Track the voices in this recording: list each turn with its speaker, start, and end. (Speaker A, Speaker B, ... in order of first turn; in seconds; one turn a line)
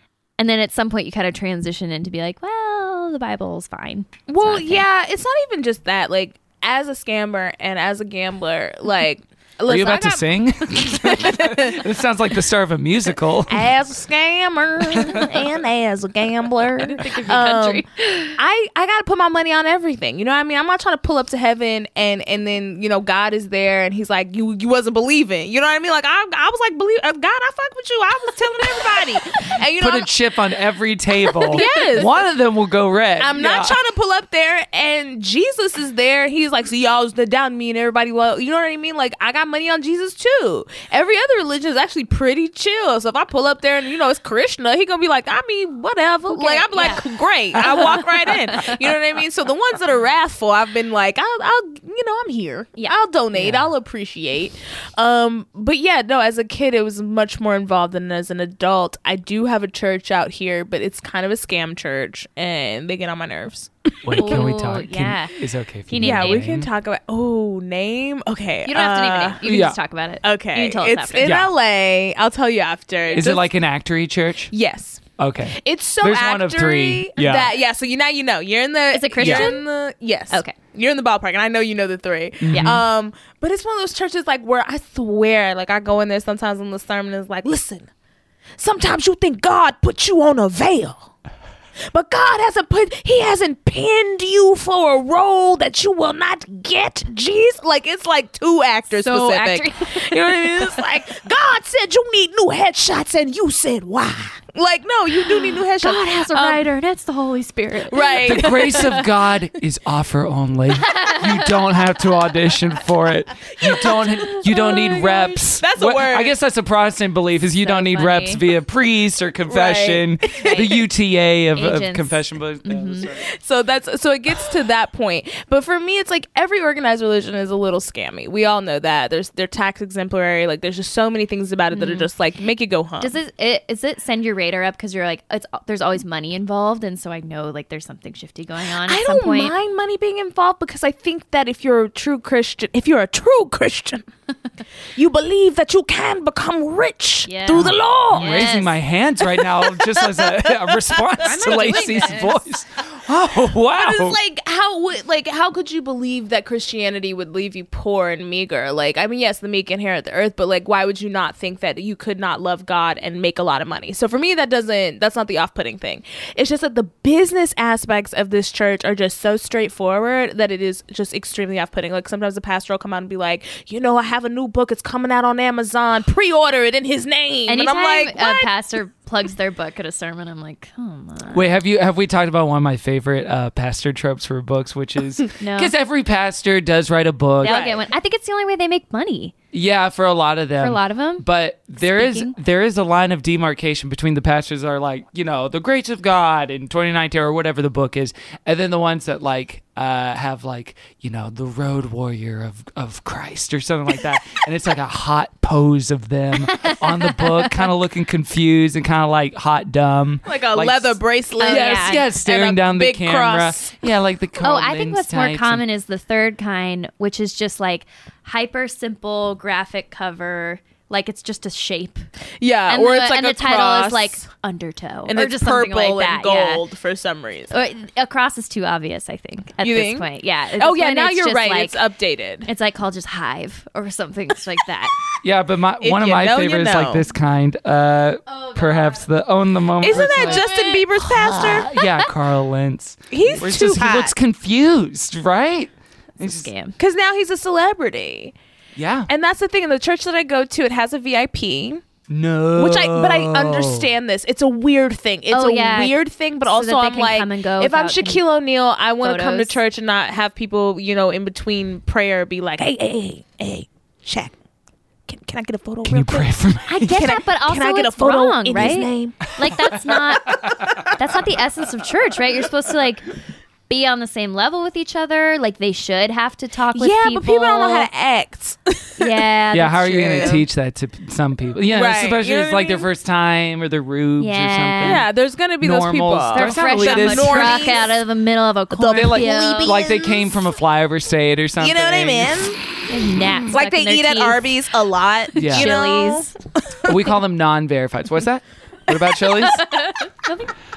Speaker A: 0.4-4.8
Speaker B: 4.3-11.8
Speaker C: 9.7-13.7
Speaker B: 13.5-17.8
Speaker A: 16.8-18.4
Speaker B: 18.4-30.1
Speaker C: 29.8-33.8
Speaker B: 31.5-32.2
Speaker A: 31.5-32.0
Speaker B: 33.2-64.4
Speaker A: 46.3-47.0
Speaker A: 47.6-48.8
Speaker A: 52.8-53.5
Speaker C: 64.0-66.7
Speaker A: 64.2-65.3
Speaker A: 65.9-66.5
Speaker B: 66.0-69.4
Speaker A: 68.7-71.3
Speaker C: 69.4-69.8
Speaker B: 70.2-73.5
Speaker C: 71.2-71.5
Speaker C: 73.1-74.5
Speaker B: 74.5-75.0
Speaker C: 75.2-77.5
Speaker B: 75.5-87.9
Speaker A: 78.9-79.7
Speaker C: 79.2-79.5
Speaker A: 80.3-80.6
Speaker C: 82.4-82.8
Speaker A: 82.5-82.8
Speaker B: 88.6-91.1
Speaker B: 91.9-106.7
Speaker A: 98.9-100.8
Speaker A: 105.2-108.5
Speaker B: 107.9-109.0
Speaker C: 108.2-123.3
Speaker A: 110.9-111.2
Speaker B: 113.6-116.3
Speaker A: 117.6-118.4
Speaker B: 119.5-120.7
Speaker A: 120.4-120.8
Speaker A: 121.5-123.1
Speaker B: 123.3-133.1
Speaker A: 131.7-132.1
Speaker A: 133.0-139.5
Speaker B: 138.8-144.0
Speaker B: 144.9-148.5
Speaker A: 147.2-148.7
Speaker C: 147.5-154.2
Speaker B: 149.4-152.4
Speaker A: 151.4-152.4
Speaker B: 153.7-178.5
Speaker A: 177.5-181.5
Speaker C: 181.3-187.6
Speaker A: 185.4-185.7
Speaker A: 187.4-189.3
Speaker B: 187.4-187.8
Speaker C: 189.5-215.6
Speaker A: 190.6-191.2
Speaker A: 191.9-192.3
Speaker A: 206.5-207.6
Speaker B: 210.2-213.7
Speaker A: 211.4-212.0
Speaker A: 214.4-222.0
Speaker B: 222.4-224.2
Speaker A: 222.7-226.6
Speaker B: 225.1-227.5
Speaker A: 227.5-231.8
Speaker B: 229.6-230.1
Speaker B: 230.6-232.5
Speaker A: 232.4-234.9
Speaker C: 235.2-240.5
Speaker B: 235.8-237.1
Speaker A: 238.2-239.1
Speaker B: 239.8-241.7
Speaker A: 239.8-240.9
Speaker C: 241.0-246.5
Speaker A: 241.6-242.1
Speaker B: 243.1-244.1
Speaker A: 246.2-246.7
Speaker B: 246.8-248.3
Speaker C: 248.8-249.1
Speaker B: 249.1-251.8
Speaker C: 252.1-253.9
Speaker B: 252.5-264.3
Speaker A: 255.3-258.2
Speaker A: 259.0-259.6
Speaker B: 265.1-266.3
Speaker C: 265.9-267.2
Speaker A: 266.7-270.4
Speaker B: 266.9-269.2
Speaker C: 269.3-269.6
Speaker C: 270.3-270.8
Speaker A: 271.0-273.1
Speaker A: 273.7-277.9
Speaker B: 276.7-279.2
Speaker A: 279.0-280.4
Speaker C: 279.5-287.8
Speaker B: 279.9-280.4
Speaker B: 281.7-282.9
Speaker A: 284.2-285.0
Speaker B: 284.8-288.0
Speaker A: 286.3-289.8
Speaker B: 288.7-290.4
Speaker C: 288.9-292.4
Speaker B: 291.6-292.6
Speaker A: 292.9-294.5
Speaker B: 293.5-296.8
Speaker A: 295.3-296.3
Speaker C: 295.4-295.8
Speaker C: 296.9-299.6
Speaker A: 299.6-300.5